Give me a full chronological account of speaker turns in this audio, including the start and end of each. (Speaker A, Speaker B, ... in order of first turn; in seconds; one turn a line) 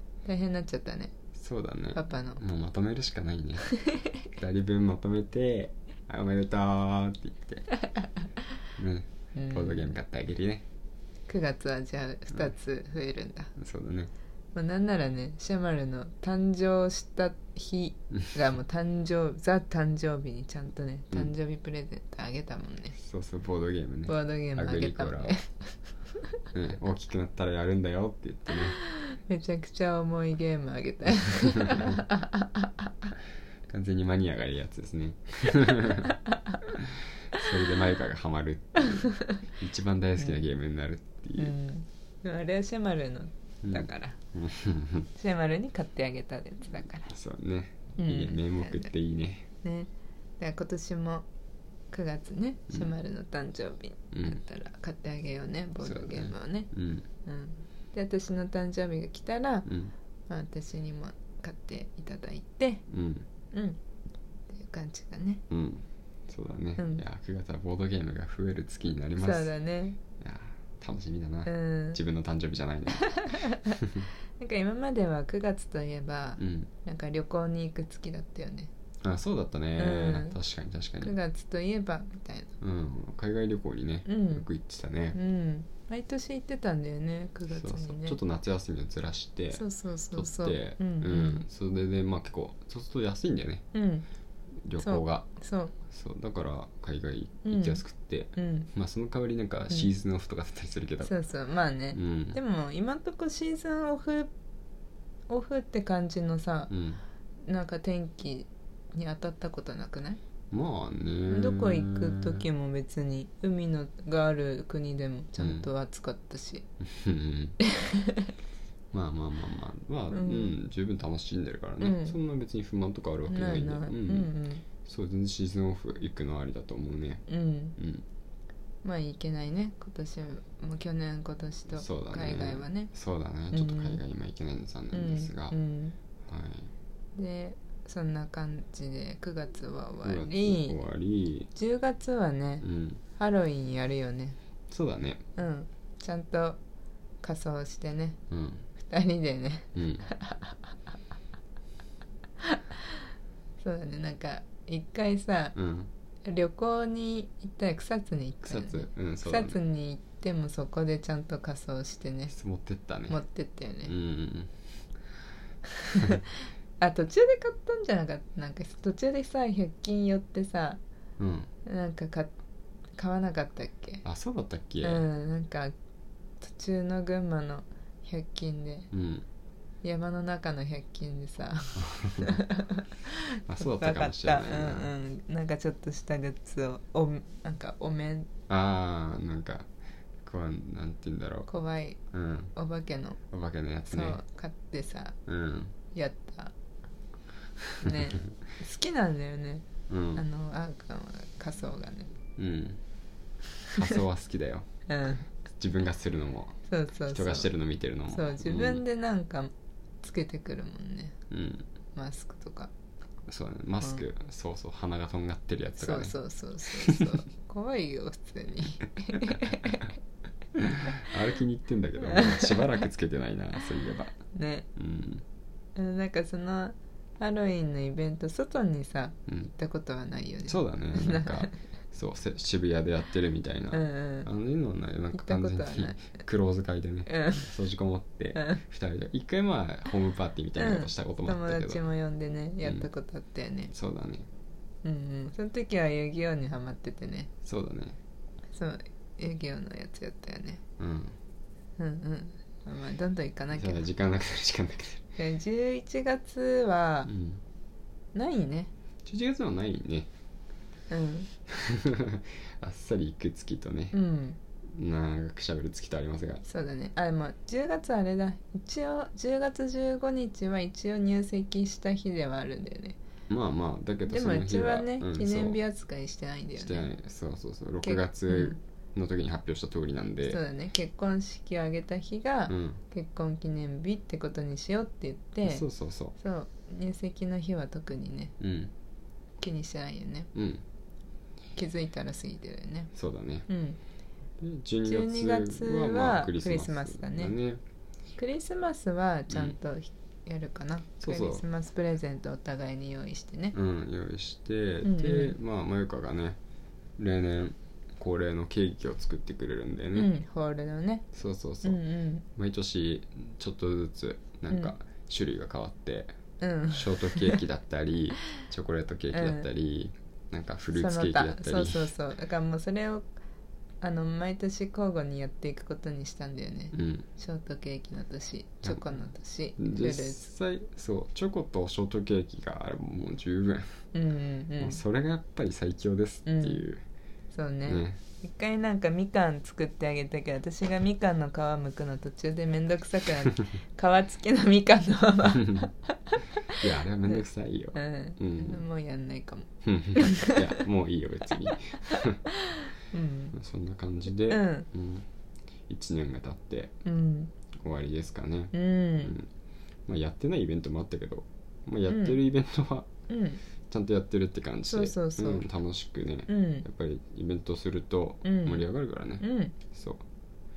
Speaker A: 0.2-1.1
Speaker B: 1.3-3.7
Speaker A: 1.9-2.4
Speaker B: 4.3-7.7
Speaker B: 8.8-10.6
Speaker A: 9.3-9.9
Speaker A: 11.3-13.5
Speaker B: 13.6-14.1
Speaker A: 14.5-22.9
Speaker B: 23.0-25.4
Speaker A: 24.1-25.9
Speaker B: 26.5-28.8
Speaker A: 28.9-33.1
Speaker B: 33.7-36.1
Speaker B: 36.7-41.5
Speaker A: 38.9-39.4
Speaker A: 41.4-44.2
Speaker B: 43.6-45.1
Speaker A: 45.1-47.1
Speaker B: 47.1-49.5
Speaker A: 48.0-48.9
Speaker A: 49.6-51.2
Speaker A: 51.9-56.7
Speaker B: 54.1-54.4
Speaker B: 55.8-57.0
Speaker A: 57.2-59.7
Speaker B: 59.6-59.9
Speaker A: 60.3-62.8
Speaker B: 62.9-63.2
Speaker A: 63.5-63.8
Speaker A: 64.5-65.4
Speaker B: 65.5-69.5
Speaker A: 66.8-67.0
Speaker A: 69.2-70.0
Speaker B: 70.2-74.0
Speaker A: 71.5-72.0
Speaker A: 73.0-73.7
Speaker A: 74.4-78.7
Speaker B: 76.4-76.7
Speaker B: 79.0-81.1
Speaker A: 79.8-80.4
Speaker A: 81.0-82.5
Speaker B: 82.6-85.2
Speaker A: 84.0-84.5
Speaker A: 85.1-88.2
Speaker B: 87.5-93.6
Speaker A: 89.5-91.5
Speaker A: 93.7-94.0
Speaker B: 94.6-95.3
Speaker A: 94.8-95.7
Speaker B: 95.9-101.1
Speaker A: 97.4-97.8
Speaker A: 98.3-98.7
Speaker A: 101.0-104.3
Speaker B: 101.9-102.4
Speaker A: 105.3-106.7
Speaker B: 106.7-107.0
Speaker A: 107.4-110.2
Speaker B: 110.5-112.4
Speaker A: 111.3-116.6
Speaker B: 115.4-115.7
Speaker B: 116.8-117.6
Speaker A: 117.6-118.3
Speaker B: 118.9-124.3
Speaker A: 120.1-120.5
Speaker A: 121.8-122.2
Speaker A: 123.3-124.6
Speaker B: 124.8-127.2
Speaker A: 127.3-127.7
Speaker B: 127.8-128.0
Speaker A: 128.8-132.9
Speaker B: 131.7-135.6
Speaker A: 133.5-134.0
Speaker A: 134.9-136.0
Speaker B: 136.3-136.7
Speaker A: 137.2-140.8
Speaker B: 140.0-141.5
Speaker A: 141.5-142.6
Speaker B: 142.6-143.0
Speaker A: 143.2-144.4
Speaker B: 144.7-145.2
Speaker A: 145.3-146.6
Speaker A: 147.2-148.2
Speaker B: 148.3-148.7
Speaker A: 148.8-150.6
Speaker B: 149.7-150.1
Speaker A: 152.4-153.0
Speaker A: 153.6-155.6
Speaker B: 155.5-155.9
Speaker A: 156.2-162.3
Speaker B: 158.4-159.6
Speaker B: 162.3-163.2
Speaker A: 163.1-163.9
Speaker B: 163.8-164.5
Speaker A: 165.8-170.8
Speaker B: 171.2-171.5
Speaker A: 171.6-172.3
Speaker A: 173.0-174.0
Speaker B: 174.0-175.0
Speaker A: 174.8-175.7
Speaker A: 176.4-178.9
Speaker B: 178.9-179.2
Speaker A: 179.8-188.3
Speaker B: 181.9-182.3
Speaker B: 183.5-184.9
Speaker B: 188.5-189.7
Speaker B: 190.2-191.5
Speaker A: 191.5-192.0
Speaker B: 192.1-192.5
Speaker A: 192.5-193.2
Speaker B: 193.3-194.2
Speaker A: 193.8-195.2
Speaker B: 195.2-195.7
Speaker A: 195.9-196.5
Speaker A: 197.8-202.1
Speaker B: 199.9-200.2
Speaker B: 202.4-202.8
Speaker B: 203.7-204.7
Speaker A: 204.9-205.2
Speaker B: 205.6-206.6
Speaker A: 206.7-207.5
Speaker B: 207.1-208.8
Speaker A: 208.1-211.2
Speaker B: 211.3-211.6
Speaker A: 211.9-212.7
Speaker B: 213.3-216.2
Speaker A: 215.8-219.9
Speaker B: 216.7-217.2
Speaker B: 220.6-224.2
Speaker A: 222.0-222.6
Speaker A: 224.3-224.7
Speaker B: 224.8-225.2
Speaker A: 225.8-231.5
Speaker B: 229.3-229.5
Speaker B: 230.4-241.8
Speaker A: 233.7-234.3
Speaker A: 235.1-236.0
Speaker A: 237.1-237.5
Speaker A: 238.3-238.6
Speaker A: 240.6-243.7
Speaker B: 243.7-244.3
Speaker A: 244.8-247.3
Speaker B: 247.4-248.0
Speaker A: 248.5-250.6
Speaker B: 250.8-251.1
Speaker A: 251.8-253.8
Speaker B: 253.5-255.0
Speaker A: 255.2-257.1
Speaker B: 257.1-257.4
Speaker A: 258.1-258.7
Speaker B: 259.1-260.1
Speaker A: 260.9-261.3
Speaker B: 261.5-264.0
Speaker A: 263.9-264.4
Speaker B: 264.6-266.4
Speaker A: 266.4-273.0
Speaker B: 273.3-275.6
Speaker A: 274.1-276.9
Speaker B: 276.6-280.4
Speaker A: 277.8-278.6
Speaker A: 280.3-285.6
Speaker B: 282.5-282.8
Speaker B: 285.4-286.1
Speaker A: 286.1-288.3
Speaker B: 288.4-288.7
Speaker A: 289.4-290.3
Speaker B: 290.3-290.6
Speaker A: 291.6-292.9
Speaker B: 292.9-293.5
Speaker A: 293.5-293.8
Speaker B: 294.4-297.6
Speaker A: 294.8-297.3
Speaker A: 298.1-303.5
Speaker B: 299.3-299.6
Speaker B: 301.0-301.4
Speaker B: 303.5-306.4
Speaker A: 304.8-305.3
Speaker B: 307.0-310.1
Speaker A: 309.9-311.0
Speaker B: 311.1-311.8
Speaker A: 311.6-312.2
Speaker B: 312.4-316.1
Speaker A: 316.4-317.4
Speaker B: 316.7-321.9
Speaker A: 319.1-319.4
Speaker A: 320.7-323.1
Speaker A: 323.8-330.3
Speaker B: 326.7-327.1
Speaker B: 328.6-328.9
Speaker B: 329.6-333.8
Speaker A: 333.9-334.8
Speaker B: 334.6-336.8
Speaker A: 336.2-336.6
Speaker A: 337.3-347.2
Speaker B: 337.6-338.0
Speaker B: 345.3-345.7
Speaker B: 346.5-348.6
Speaker A: 347.7-350.6
Speaker B: 349.6-352.2
Speaker A: 352.4-353.3
Speaker B: 353.3-355.1
Speaker A: 354.3-354.7
Speaker B: 355.7-356.7
Speaker A: 356.8-357.3
Speaker B: 357.6-359.3
Speaker A: 358.5-359.1
Speaker B: 359.9-362.9
Speaker A: 361.9-362.2
Speaker A: 363.1-363.4
Speaker B: 363.7-370.0
Speaker A: 364.7-365.5
Speaker A: 366.3-366.6
Speaker A: 368.2-368.6
Speaker A: 369.2-369.6